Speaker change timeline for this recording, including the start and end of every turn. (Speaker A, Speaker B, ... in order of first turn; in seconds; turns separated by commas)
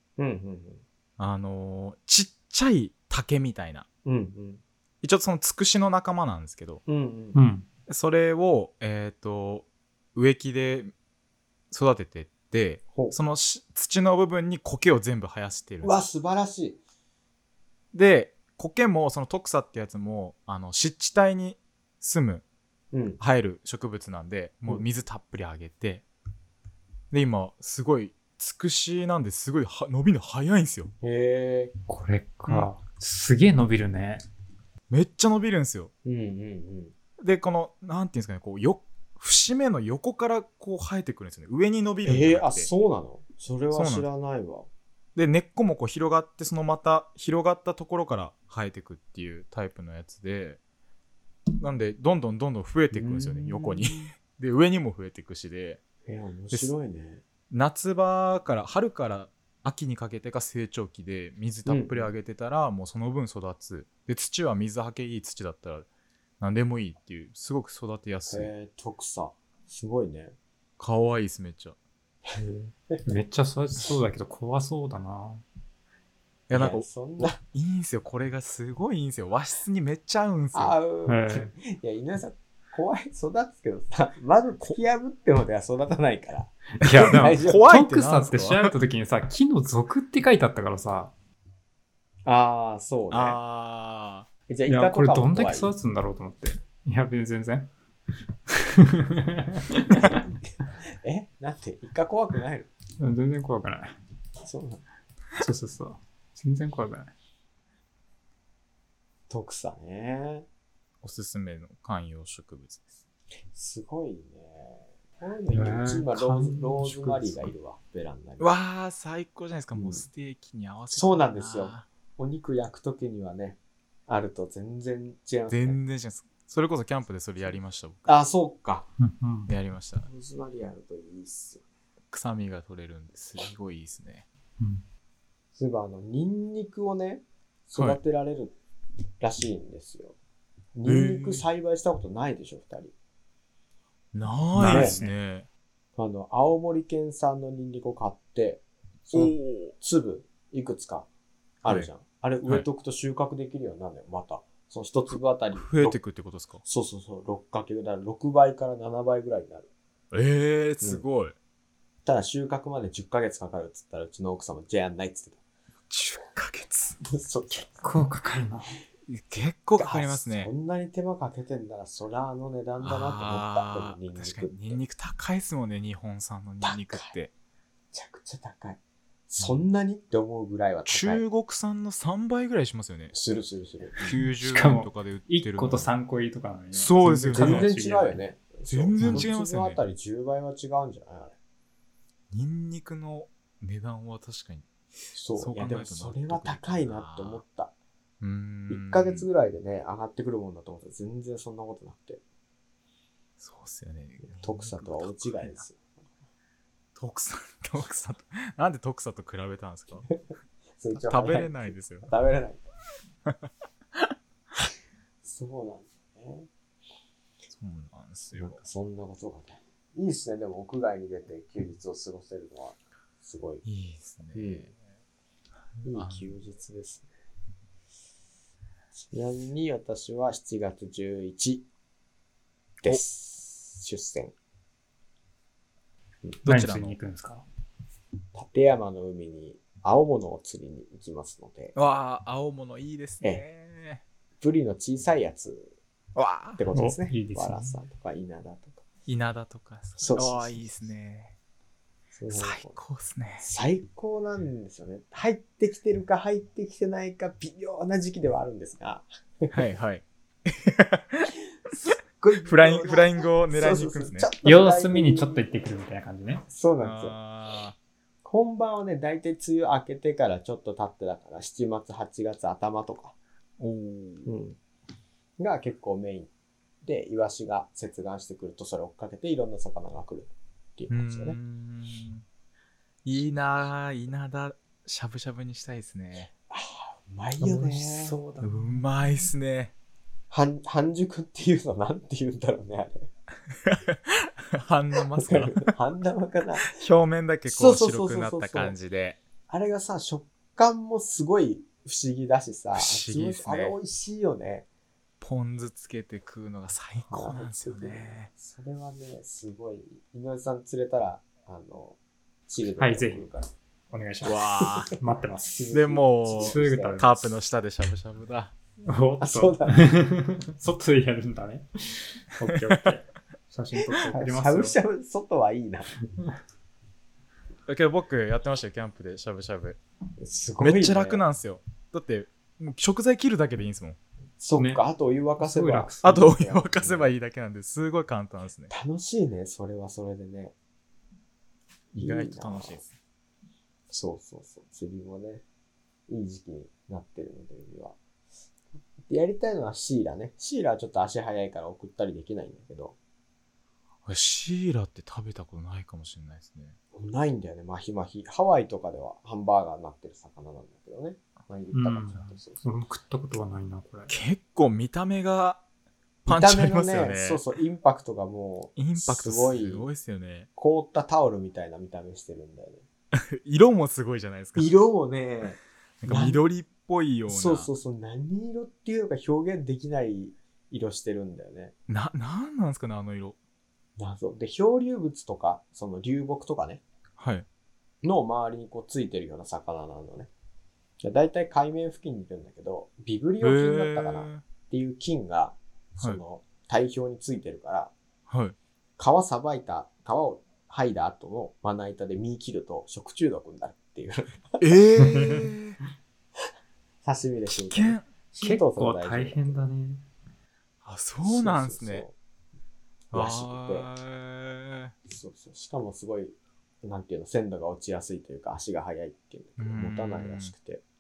Speaker A: 0.2-0.8, Speaker B: 1.2-3.9, Speaker A: 4.0-4.6, Speaker B: 5.0-6.8, Speaker A: 6.9-7.4, Speaker C: 7.3-7.7, Speaker B: 7.9-10.9, Speaker B: 11.7-16.0, Speaker A: 15.8-16.8, Speaker B: 17.9-22.4, Speaker A: 22.9-23.2, Speaker B: 23.2-26.0, Speaker B: 27.1-30.9, Speaker A: 31.0-31.8, Speaker C: 31.9-34.2, Speaker B: 34.9-35.9, Speaker A: 36.0-36.9, Speaker B: 37.2-42.7, Speaker A: 42.0-44.7, Speaker B: 43.7-44.1, Speaker B: 45.2-50.6, Speaker B: 51.6-55.8, Speaker A: 52.9-54.1, Speaker A: 56.1-57.2, Speaker B: 57.5-65.9, Speaker A: 61.7-62.1, Speaker B: 66.4-68.5, Speaker A: 68.3-70.3, Speaker B: 70.8-71.8, Speaker C: 72.4-75.4, Speaker B: 76.5-80.8, Speaker A: 76.5-77.4, Speaker A: 80.5-87.7, Speaker C: 81.1-81.5, Speaker C: 86.8-91.1, Speaker B: 86.9-88.7, Speaker A: 92.2-93.4, Speaker B: 93.1-94.3, Speaker A: 94.5-95.7, Speaker C: 94.7-97.7, Speaker C: 98.5-100.2, Speaker A: 99.9-102.7, Speaker C: 103.0-104.0, Speaker A: 104.4-104.8, Speaker C: 105.4-107.1, Speaker A: 109.3-110.5, Speaker B: 111.0-112.9, Speaker A: 113.5-118.5, Speaker C: 115.5-117.5, Speaker B: 118.4-121.9, Speaker A: 119.8-120.0, Speaker A: 120.9-125.8, Speaker B: 125.5-128.1, Speaker A: 128.1-128.9, Speaker C: 129.0-129.5, Speaker B: 129.5-130.1, Speaker A: 130.0-131.6, Speaker B: 132.1-134.3, Speaker A: 135.6-138.6, Speaker A: 139.2-140.2, Speaker A: 140.8-142.9, Speaker B: 140.9-141.4, Speaker B: 144.1-145.5, Speaker C: 144.6-145.1, Speaker A: 144.6-145.0, Speaker A: 146.0-151.1, Speaker B: 149.1-149.8, Speaker A: 151.6-156.0, Speaker B: 151.7-151.9, Speaker B: 155.6-156.6, Speaker A: 156.6-159.7, Speaker B: 160.1-161.3, Speaker A: 162.1-165.4, Speaker B: 165.9-167.0, Speaker A: 167.0-167.9, Speaker C: 167.8-168.7, Speaker B: 169.1-170.5, Speaker A: 169.8-174.8, Speaker B: 172.8-177.3, Speaker A: 176.6-177.1, Speaker A: 177.9-181.2, Speaker B: 180.9-183.1, Speaker A: 183.1-184.2, Speaker B: 184.0-185.9, Speaker C: 184.3-188.2, Speaker B: 186.7-187.7, Speaker A: 187.3-191.3, Speaker B: 188.7-189.8, Speaker C: 189.0-189.3, Speaker B: 192.3-194.7, Speaker A: 195.1-197.7, Speaker B: 195.3-197.4, Speaker B: 198.2-199.3, Speaker A: 198.7-202.2, Speaker B: 203.4-205.6, Speaker A: 204.2-205.8, Speaker B: 207.0-210.1, Speaker A: 210.8-212.6, Speaker B: 211.0-212.1, Speaker B: 213.3-214.1, Speaker A: 215.2-216.5, Speaker B: 217.5-218.6, Speaker A: 218.3-223.6, Speaker B: 223.7-224.7, Speaker A: 224.3-224.7, Speaker B: 225.8-226.3, Speaker A: 225.8-227.1, Speaker A: 229.1-231.7, Speaker A: 232.8-234.3, Speaker B: 236.4-237.0, Speaker C: 236.5-237.4, Speaker A: 238.3-241.8, Speaker B: 241.8-244.0, Speaker A: 244.4-245.7, Speaker B: 246.2-246.6, Speaker A: 246.6-248.8, Speaker C: 246.8-247.8, Speaker B: 249.1-251.3, Speaker A: 250.0-250.6, Speaker A: 252.1-252.8, Speaker B: 252.3-253.5, Speaker A: 253.4-259.6, Speaker B: 259.5-261.9, Speaker A: 262.1-265.4, Speaker B: 262.5-264.3, Speaker C: 264.4-266.5, Speaker A: 266.5-267.2, Speaker B: 266.8-267.8, Speaker A: 268.2-273.1, Speaker B: 273.6-274.3, Speaker A: 274.2-274.6, Speaker A: 275.4-276.3, Speaker A: 276.8-281.4, Speaker B: 280.9-282.2, Speaker B: 283.1-286.3, Speaker A: 286.5-288.2, Speaker C: 287.4-288.6, Speaker B: 288.4-289.7, Speaker A: 290.3-293.1, Speaker B: 293.6-295.7, Speaker A: 295.1-296.8, Speaker B: 296.6-299.2, Speaker A: 297.5-298.8, Speaker A: 299.5-304.7, Speaker B: 302.8-303.8, Speaker B: 305.2-308.3, Speaker A: 307.1-313.5, Speaker C: 312.8-313.3, Speaker C: 313.9-315.7, Speaker B: 314.2-314.9, Speaker A: 315.5-317.0, Speaker B: 315.7-318.5, Speaker C: 316.3-317.3, Speaker C: 318.8-324.8, Speaker A: 319.2-319.9, Speaker B: 322.5-322.9, Speaker A: 324.1-325.9, Speaker B: 327.7-329.8, Speaker A: 330.2-331.2, Speaker B: 330.6-334.0, Speaker A: 334.4-337.1, Speaker C: 334.6-334.8, Speaker C: 335.4-336.2, Speaker B: 336.0-338.7, Speaker A: 338.7-340.5, Speaker A: 341.9-342.8, Speaker B: 342.0-342.9, Speaker A: 343.9-345.4, Speaker A: 346.1-348.0, Speaker A: 349.1-353.0, Speaker B: 354.1-356.8, Speaker A: 356.9-362.6, Speaker C: 361.7-364.1, Speaker B: 364.1-365.6, Speaker B: 366.3-367.4, Speaker A: 366.3-369.9, Speaker B: 368.8-370.5, Speaker A: 370.6-372.8, Speaker B: 373.1-374.7, Speaker A: 374.6-376.4, Speaker B: 376.0-377.7, Speaker A: 377.3-381.7, Speaker B: 381.9-383.4, Speaker A: 384.0-386.8, Speaker B: 387.2-387.5, Speaker A: 388.0-390.3, Speaker A: 391.0-397.9, Speaker B: 393.4-394.4, Speaker B: 398.3-398.6, Speaker A: 399.0-404.7, Speaker B: 404.6-405.8, Speaker C: 405.0-405.5, Speaker A: 407.0-409.7, Speaker B: 407.5-408.1, Speaker C: 408.4-410.0, Speaker B: 410.8-412.1, Speaker A: 411.2-412.1, Speaker A: 413.1-413.9, Speaker B: 413.1-414.9, Speaker A: 415.1-420.8, Speaker B: 419.6-420.5